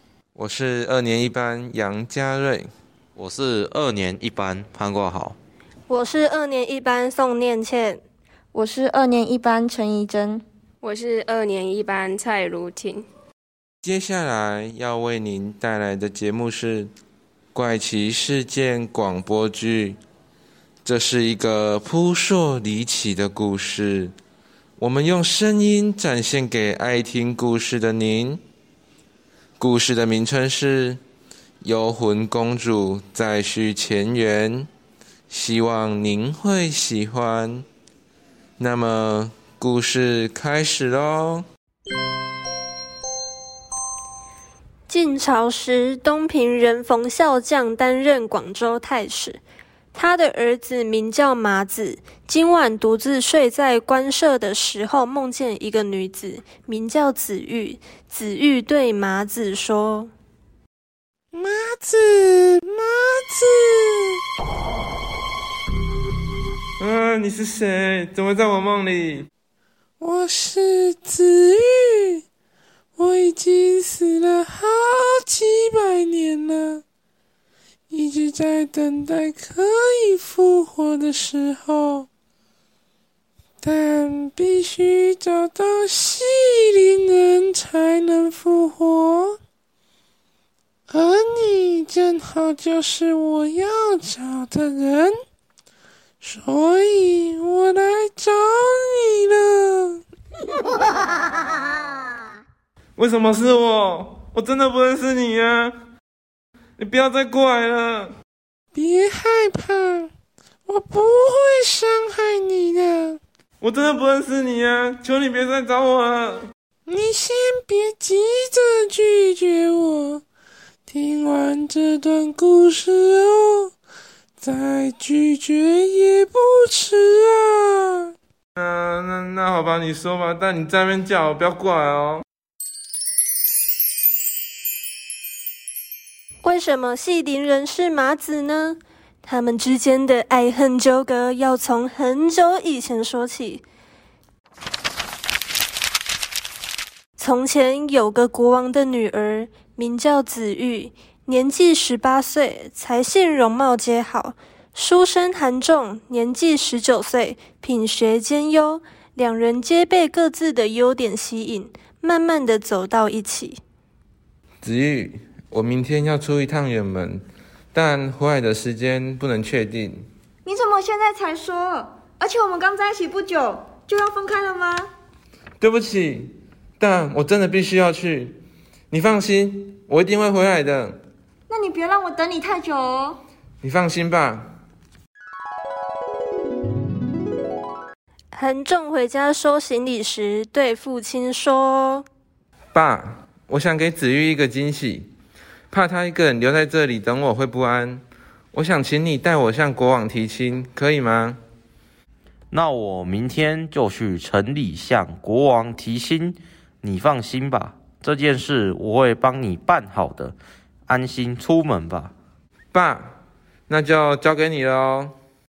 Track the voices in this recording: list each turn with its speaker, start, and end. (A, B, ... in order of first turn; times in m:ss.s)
0:00.4-0:02.7 A
0:03.2-0:05.4 B
0:05.9-0:08.0 C
0:08.5-0:10.4 D
0:10.8-0:13.0 E
0:13.8-0:16.9 A
0:17.5-0:20.0 A
0:20.8-0:24.1 A
0:24.8-0:28.4 A
0:29.6-0:31.0 A
0:31.6-0:34.7 A
0:35.3-0:37.6 A
0:38.6-0:41.4 A
0:44.9-0:49.4 C
0:49.9-1:00.1 C
1:01.3-1:04.2 F
1:06.8-1:09.3 A
1:10.0-1:12.2 F
1:13.0-1:16.8 F
1:17.9-1:22.1 F
1:23.6-1:29.4 F
1:30.9-1:35.2 F
1:36.2-1:40.0 F
1:43.0-1:45.7 A
1:46.8-1:48.1 A
1:48.8-1:50.1 F
1:50.7-1:53.2 F
1:53.6-1:56.4 A
1:56.9-2:00.2 F
2:00.9-2:03.7 F
2:04.4-2:08.1 F
2:08.6-2:12.2 A
2:16.4-2:23.6 C
2:27.2-2:43.6 C
2:44.6-2:47.2 A
2:47.7-2:50.0 A
2:50.4-2:54.9 D
2:55.6-2:58.4 A
2:58.9-3:01.0 A
3:01.5-3:03.2 D
3:03.6-3:04.5 A
3:08.3-3:12.0 C
3:12.7-3:15.1 A
3:15.7-3:18.0 A
3:18.5-3:21.4 A
3:22.5-3:30.4 B
3:30.9-3:32.1 B
3:32.7-3:33.0 A
3:33.7-3:35.1 A